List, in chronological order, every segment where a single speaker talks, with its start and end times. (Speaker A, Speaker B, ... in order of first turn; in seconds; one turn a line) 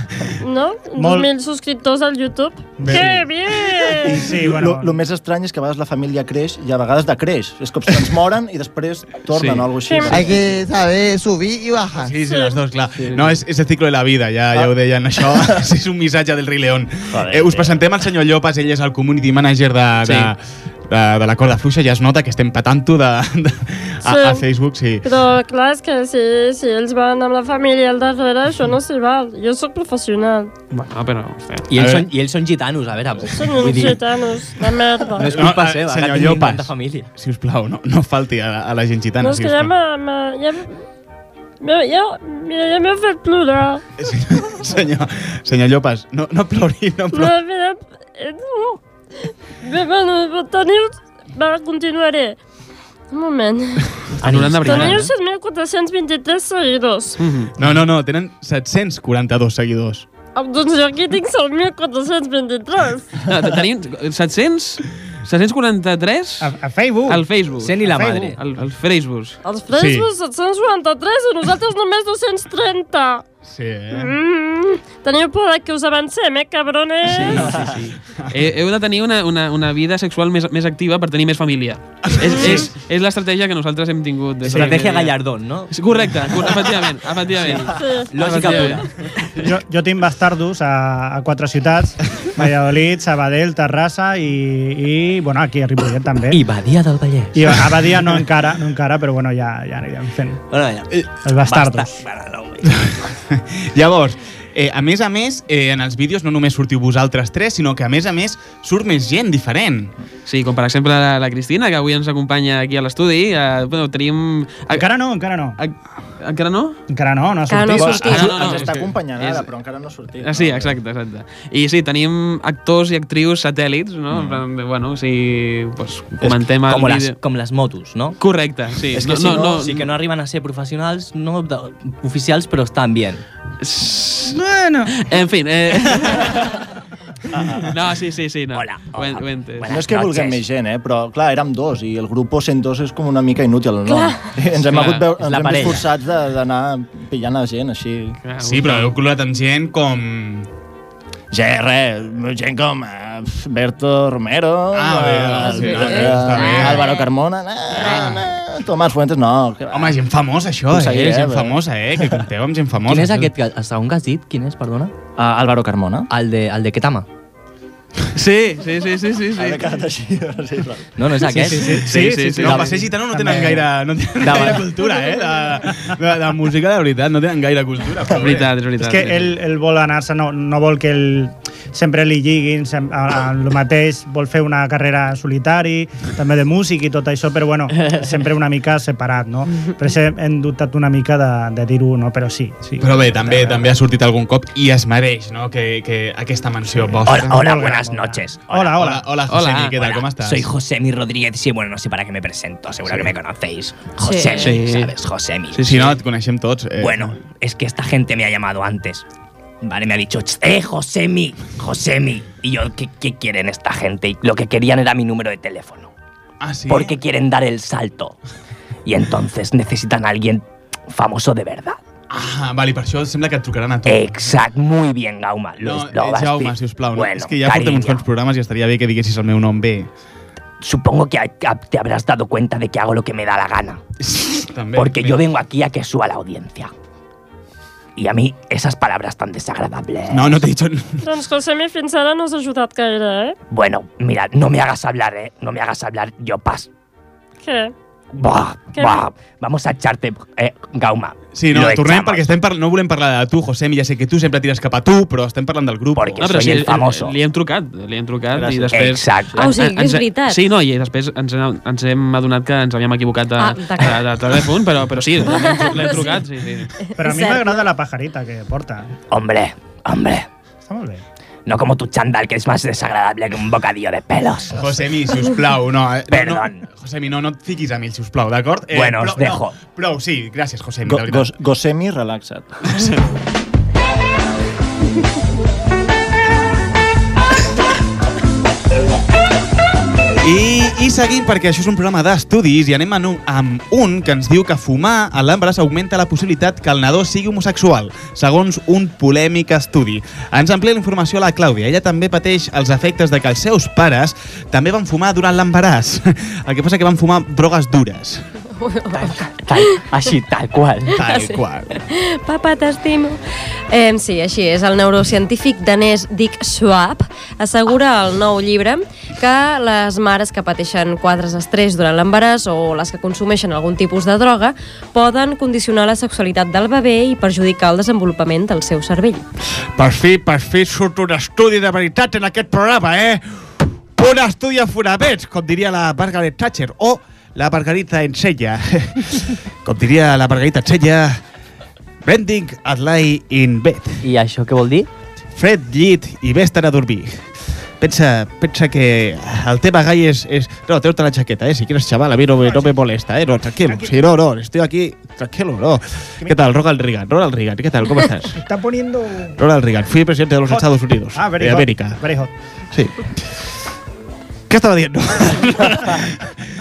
Speaker A: 0.4-4.2
Speaker B: 1.0-1.3
Speaker B: 2.8-3.2
Speaker C: 4.0-10.6
Speaker B: 4.0-5.0
Speaker D: 9.3-9.7
Speaker A: 9.8-10.2
Speaker E: 10.1-12.1
Speaker F: 11.9-25.1
Speaker A: 12.3-12.5
Speaker D: 13.0-13.4
Speaker C: 15.3-15.5
Speaker C: 17.1-17.8
Speaker D: 20.1-20.3
Speaker A: 24.0-24.4
Speaker A: 25.0-30.5
Speaker D: 30.8-31.7
Speaker G: 31.7-34.0
Speaker F: 31.7-32.1
Speaker A: 33.2-35.3
Speaker G: 35.2-37.1
Speaker F: 35.2-39.7
Speaker A: 39.2-40.8
Speaker A: 41.6-43.8
Speaker F: 44.0-47.3
Speaker A: 47.1-52.4
Speaker A: 53.1-54.0
Speaker D: 54.2-55.1
Speaker G: 54.2-55.1
Speaker A: 54.6-57.2
Speaker D: 57.2-57.5
Speaker F: 57.6-60.0
Speaker A: 60.3-63.1
Speaker D: 63.2-66.5
Speaker B: 66.4-67.3
Speaker D: 67.1-69.4
Speaker G: 67.6-68.4
Speaker A: 69.4-73.2
Speaker F: 69.7-70.1
Speaker F: 73.5-74.1
Speaker A: 73.9-77.4
Speaker D: 77.1-88.9
Speaker G: 77.1-77.5
Speaker F: 82.0-82.7
Speaker G: 84.4-85.7
Speaker G: 87.4-88.9
Speaker A: 87.7-88.7
Speaker B: 89.4-96.4
Speaker G: 96.3-97.6
Speaker B: 97.3-100.4
Speaker G: 100.5-100.8
Speaker B: 101.2-102.0
Speaker H: 101.4-102.9
Speaker F: 102.8-109.9
Speaker D: 110.2-114.9
Speaker B: 114.7-115.6
Speaker D: 115.6-116.8
Speaker B: 116.9-118.1
Speaker I: 117.5-118.4
Speaker C: 117.8-120.8
Speaker D: 117.8-119.5
Speaker D: 120.2-127.2
Speaker G: 126.2-128.2
Speaker D: 128.2-129.9
Speaker G: 128.9-133.2
Speaker D: 133.6-134.4
Speaker F: 134.2-134.9
Speaker D: 134.9-136.6
Speaker D: 137.6-139.7
Speaker H: 138.5-140.4
Speaker C: 139.7-148.2
Speaker I: 143.8-144.2
Speaker D: 144.7-145.1
Speaker G: 145.3-145.8
Speaker D: 148.2-148.9
Speaker F: 148.4-150.5
Speaker C: 151.3-160.0
Speaker F: 154.7-156.9
Speaker I: 155.4-157.1
Speaker F: 157.8-158.2
Speaker I: 157.8-158.0
Speaker F: 159.7-163.3
Speaker C: 160.7-161.6
Speaker G: 162.9-164.9
Speaker C: 165.2-166.1
Speaker G: 166.1-167.0
Speaker D: 168.1-169.6
Speaker C: 169.3-171.0
Speaker G: 171.0-172.7
Speaker B: 171.2-173.7
Speaker F: 171.3-178.5
Speaker D: 171.7-172.6
Speaker G: 174.2-174.7
Speaker D: 178.2-179.3
Speaker B: 178.8-193.6
Speaker F: 192.8-197.4
Speaker H: 197.1-198.7
Speaker B: 197.3-199.1
Speaker F: 198.5-200.4
Speaker D: 199.3-199.7
Speaker H: 199.7-205.9
Speaker F: 202.8-203.1
Speaker D: 204.4-204.9
Speaker D: 205.5-205.9
Speaker F: 205.6-207.2
Speaker H: 206.8-209.0
Speaker H: 209.6-215.9
Speaker F: 216.4-216.9
Speaker H: 216.7-218.2
Speaker H: 218.8-221.8
Speaker F: 222.1-224.4
Speaker H: 223.8-228.1
Speaker F: 225.6-229.9
Speaker H: 230.6-233.8
Speaker F: 234.0-235.2
Speaker H: 234.7-236.7
Speaker H: 237.9-240.4
Speaker F: 240.1-241.0
Speaker A: 241.0-243.4
Speaker H: 243.5-246.7
Speaker A: 247.4-247.7
Speaker H: 248.1-252.2
Speaker A: 248.7-249.0
Speaker F: 251.3-256.4
Speaker H: 255.9-257.1
Speaker D: 256.2-266.7
Speaker C: 258.3-258.8
Speaker H: 258.7-259.4
Speaker I: 259.4-260.4
Speaker I: 263.4-264.1
Speaker I: 265.2-266.2
Speaker I: 266.8-267.7
Speaker B: 267.0-268.9
Speaker H: 269.1-270.3
Speaker B: 270.6-271.0
Speaker H: 271.4-274.9
Speaker F: 274.5-281.3
Speaker H: 276.1-276.6
Speaker H: 278.7-279.5
Speaker C: 280.9-282.9
Speaker F: 290.2-308.2
Speaker I: 308.6-309.9
Speaker G: 309.7-310.9
Speaker F: 310.9-311.8
Speaker I: 310.9-313.2
Speaker I: 313.7-329.2
Speaker F: 329.7-333.2
Speaker F: 333.9-341.2
Speaker F: 342.0-344.0
Speaker G: 344.0-344.9
Speaker F: 345.3-347.3
Speaker F: 347.8-358.4
Speaker B: 352.4-352.7
Speaker B: 353.6-354.0
Speaker B: 358.3-359.4
Speaker F: 359.4-362.0
Speaker B: 360.5-362.3
Speaker F: 362.7-363.3
Speaker F: 364.5-366.3